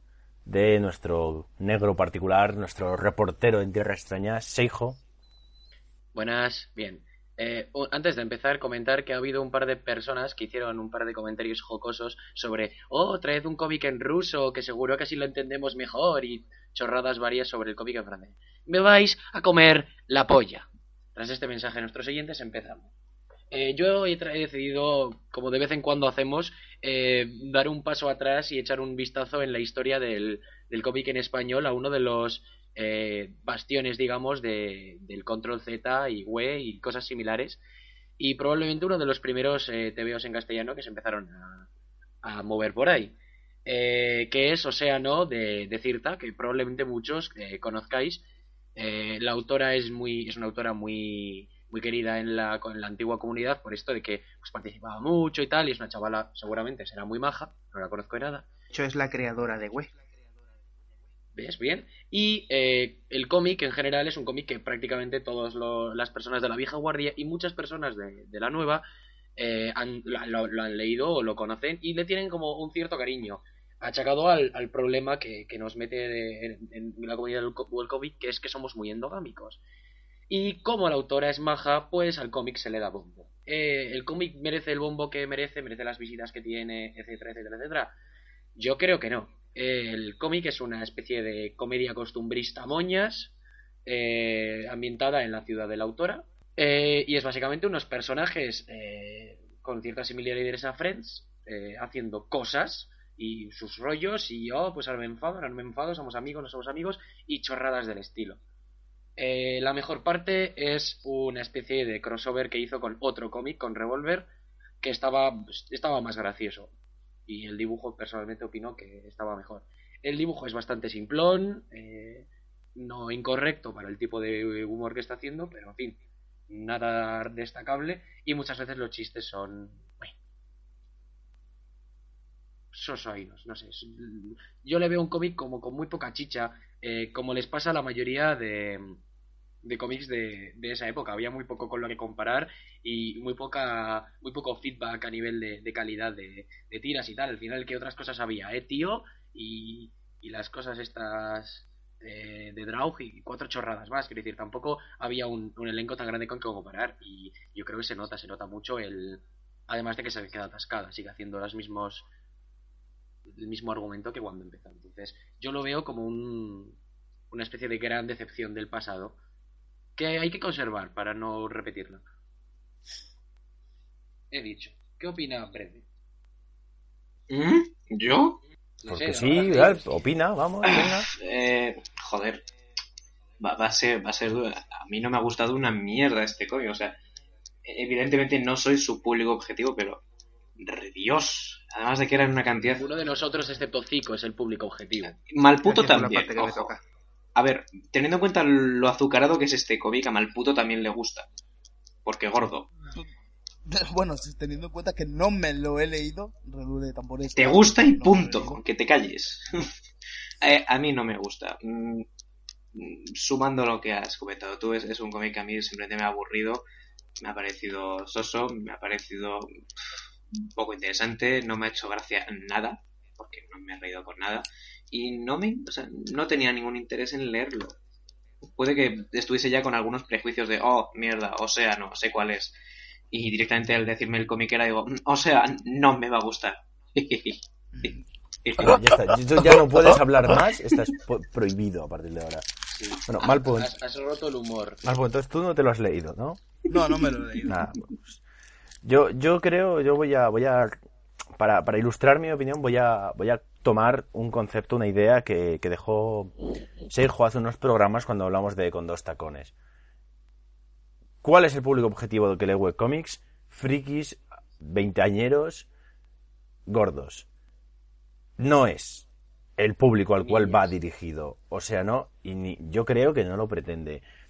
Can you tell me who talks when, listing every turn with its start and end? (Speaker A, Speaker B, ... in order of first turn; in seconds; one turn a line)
Speaker A: 0.5-5.0
Speaker B: 6.2-22.9
Speaker B: 23.5-37.6
Speaker B: 38.2-41.7
Speaker B: 42.2-48.2
Speaker B: 48.8-58.5
Speaker C: 58.7-59.9
Speaker B: 61.4-68.8
Speaker B: 69.4-79.6
Speaker B: 80.3-88.0
Speaker B: 88.6-93.3
Speaker B: 93.9-108.4
Speaker B: 109.2-114.3
Speaker B: 114.8-116.7
Speaker B: 117.3-130.1
Speaker B: 132.7-139.0
Speaker B: 139.6-162.1
Speaker B: 163.3-166.8
Speaker B: 167.3-169.2
Speaker B: 170.0-172.0
Speaker B: 174.3-175.9
Speaker D: 177.3-178.4
Speaker B: 178.8-179.9
Speaker A: 178.9-181.1
Speaker D: 180.7-182.4
Speaker D: 183.4-187.0
Speaker D: 187.7-190.0
Speaker D: 190.6-192.8
Speaker B: 192.7-195.2
Speaker D: 195.1-196.7
Speaker C: 195.6-196.8
Speaker D: 197.4-201.3
Speaker D: 202.1-202.7
Speaker E: 203.7-208.6
Speaker D: 207.4-209.7
Speaker D: 210.4-212.1
Speaker D: 212.8-216.6
Speaker D: 217.2-219.5
Speaker D: 220.6-227.7
Speaker D: 228.6-232.5
Speaker D: 233.1-239.0
Speaker A: 238.6-242.5
Speaker B: 242.7-244.8
Speaker A: 243.1-243.7
Speaker A: 244.8-246.6
Speaker E: 246.7-247.6
Speaker A: 247.4-248.2
Speaker A: 248.8-250.8
Speaker A: 251.4-256.3
Speaker A: 256.9-259.5
Speaker A: 261.2-265.7
Speaker A: 266.7-267.3
Speaker A: 268.4-269.1
Speaker A: 269.6-274.0
Speaker B: 270.2-270.7